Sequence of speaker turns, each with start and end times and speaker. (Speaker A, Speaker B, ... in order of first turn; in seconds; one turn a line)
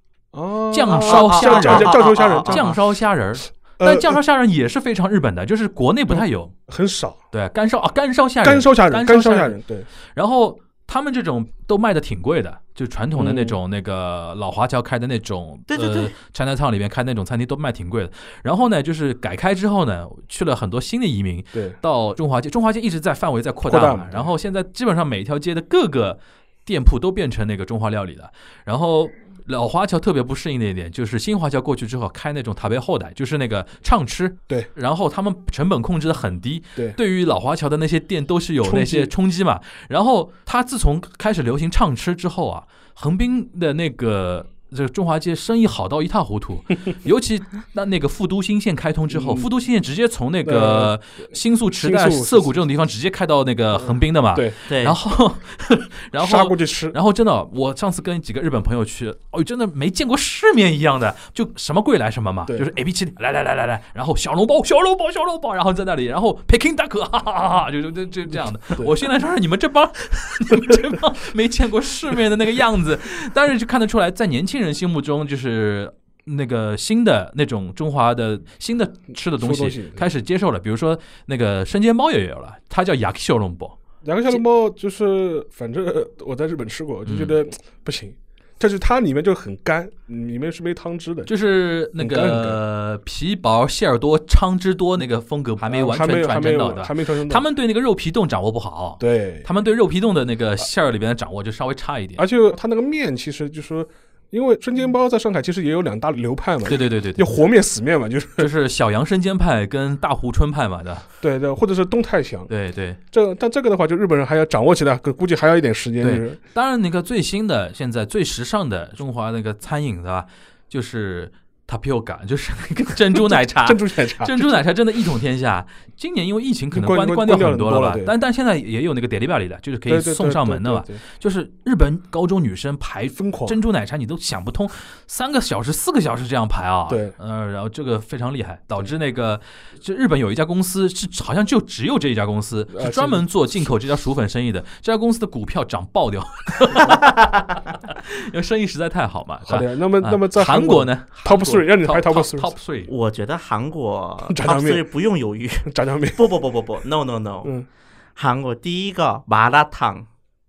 Speaker A: 0.3-2.8
Speaker B: 0.7-6.5
Speaker C: 0.9-2.6
Speaker A: 3.8-4.2
Speaker A: 6.1-7.2
Speaker B: 7.3-9.6
Speaker A: 8.4-9.9
Speaker B: 10.1-83.8
Speaker A: 13.1-13.6
Speaker C: 15.7-16.1
Speaker A: 23.6-24.3
Speaker A: 38.6-39.1
Speaker A: 49.1-49.5
Speaker A: 50.4-51.0
Speaker A: 51.8-52.6
Speaker A: 53.7-54.6
Speaker C: 54.7-55.0
Speaker A: 56.2-57.0
Speaker A: 79.4-80.1
Speaker A: 84.0-91.3
Speaker B: 87.0-87.4
Speaker B: 91.3-102.2
Speaker A: 92.0-92.6
Speaker A: 95.6-97.4
Speaker A: 99.0-99.5
Speaker A: 102.2-108.5
Speaker B: 106.7-107.3
Speaker B: 108.4-111.0
Speaker A: 111.2-112.5
Speaker B: 112.5-113.0
Speaker A: 113.1-116.4
Speaker B: 116.0-152.9
Speaker A: 123.1-124.6
Speaker A: 126.7-128.1
Speaker A: 129.9-131.0
Speaker A: 133.2-133.6
Speaker A: 136.9-137.1
Speaker A: 142.7-143.3
Speaker A: 149.4-152.6
Speaker C: 152.9-157.5
Speaker A: 154.3-154.8
Speaker A: 155.7-156.2
Speaker C: 158.2-160.1